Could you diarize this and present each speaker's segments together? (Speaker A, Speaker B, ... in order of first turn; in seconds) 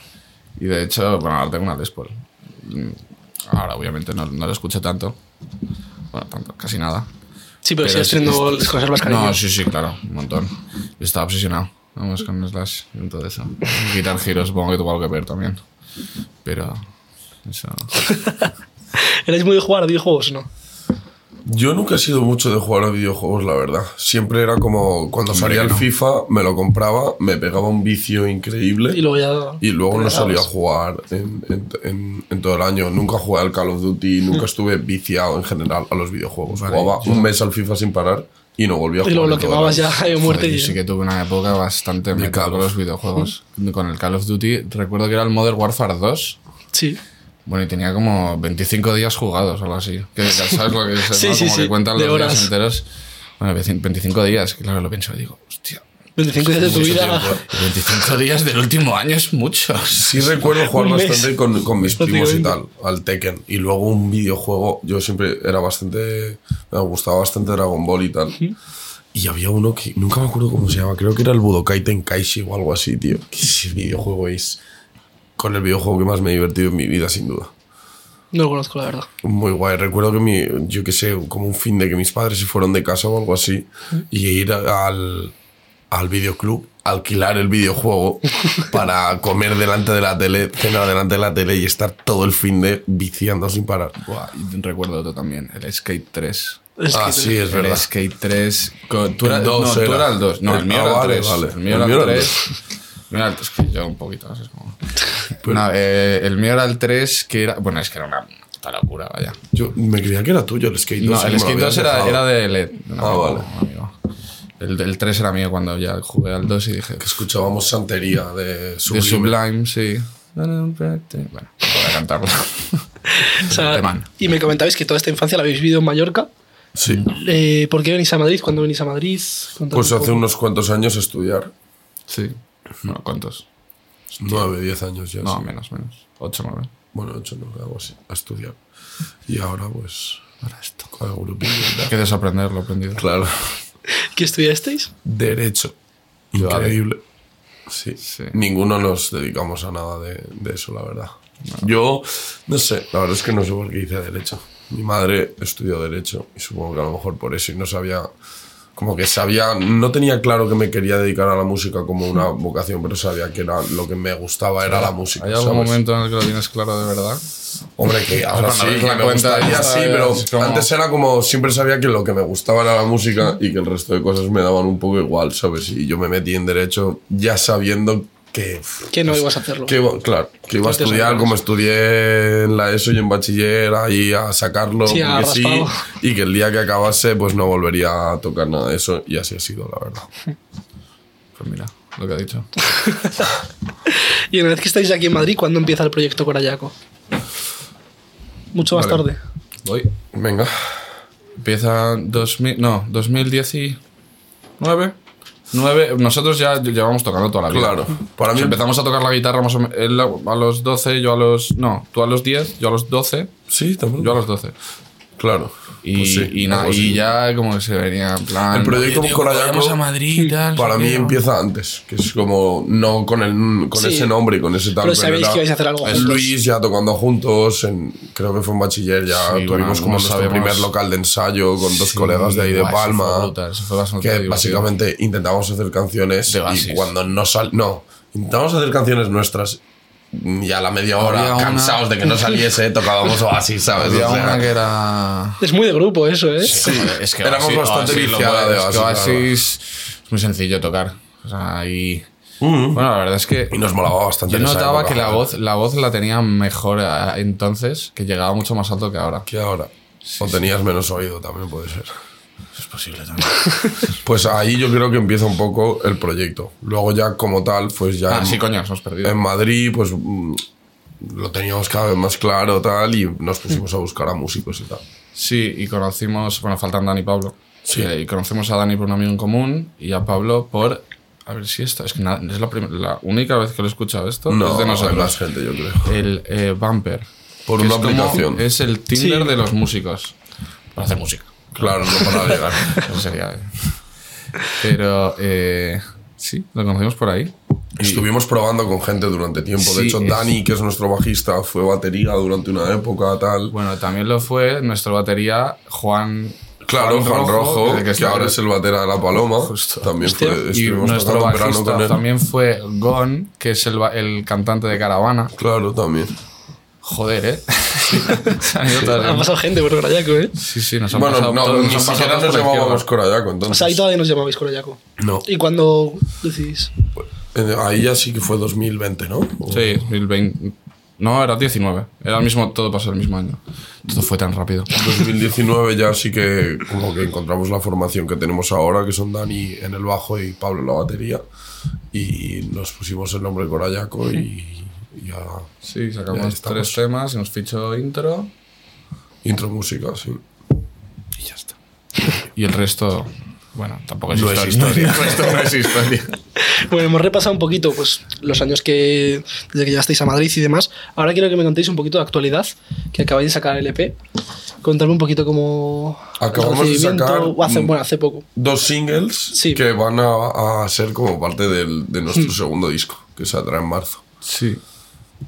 Speaker A: 0.6-5.2, 6.1-7.1, 7.8-15.6, 16.4-16.8, 17.4-18.0, 25.3-25.9, 36.5-37.3, 40.2-46.4, 47.5-52.9, 53.4-55.8, 56.4-60.4, 94.0-96.6, 97.5-102.5, 103.1-109.4, 111.0-113.9, 114.6-117.1, 118.9-124.1, 132.1-133.5, 134.2-134.5, 135.2-136.7, 140.4-140.9, 141.8-143.1, 146.3-146.8, 148.0-148.4, 164.7-167.2, 168.2-170.7, 191.4-192.5, 199.7-199.9, 201.4-203.8, 204.6-205.0, 205.5-213.3, 214.0-214.6, 215.8-221.2, 229.1-230.7, 231.7-234.7, 236.3-236.9, 241.0-241.9, 243.7-245.4, 246.4-252.1, 252.7-253.6, 254.3-259.3, 260.1-260.4, 262.6-264.0, 268.1-269.2, 275.1-285.2, 285.9-290.2, 290.7-293.8, 294.4-298.0, 299.6-300.4, 303.5-308.4, 309.4-315.3, 316.8-319.3, 320.4-322.9, 329.5-334.8, 345.6-348.3, 352.1-356.2, 374.2-374.6
Speaker B: 7.6-9.4, 18.0-18.5, 19.0-20.5, 28.9-30.5, 39.0-40.8, 46.7-47.0, 51.1-52.5, 56.2-57.4, 60.5-61.3, 62.0-62.5, 78.3-79.1, 96.8-97.4, 123.2-126.3, 127.1-130.2, 143.9-144.9, 178.9-179.8, 180.6-181.3, 184.9-185.8, 192.8-193.3, 193.9-196.7, 198.5-199.2, 223.8-224.1, 224.8-226.3, 245.4-246.6, 289.0-289.3, 310.0-310.4, 318.8-320.4, 323.5-326.7, 356.4-364.0, 364.6-368.3, 369.3-369.6
Speaker C: 21.4-29.0, 29.6-40.0, 42.1-42.7, 56.4-57.5, 60.0-68.4, 69.1-74.6, 75.4-77.5, 79.2-85.3, 85.9-94.0, 96.9-97.9, 99.2-102.5, 109.5-112.3, 113.0-113.5, 117.0-119.4, 126.8-127.0, 129.7-131.5, 134.2-135.4, 136.9-138.6, 139.3-140.2, 140.9-141.9, 143.0-143.6, 145.1-145.7, 146.3-147.0, 147.7-158.1, 158.8-165.8, 167.8-190.1, 198.7-199.0, 200.1-200.8, 207.5-208.6, 213.5-214.2, 215.2-217.1, 218.5-219.8, 220.6-233.3, 234.0-239.6, 240.1-244.4, 246.5-249.3, 252.4-252.8, 253.5-255.3, 259.3-262.0, 264.0-268.4, 269.0-270.4, 271.0-274.8, 277.6-277.9, 284.3-285.9, 287.5-288.4, 291.5-292.8, 297.8-303.6, 306.6-312.0, 315.4-316.1, 320.9-323.8, 325.0-325.3, 327.0-329.9, 334.7-341.2, 341.9-345.5, 346.1-346.8, 349.2-350.2, 354.1-355.5, 366.2-367.7, 368.4-374.0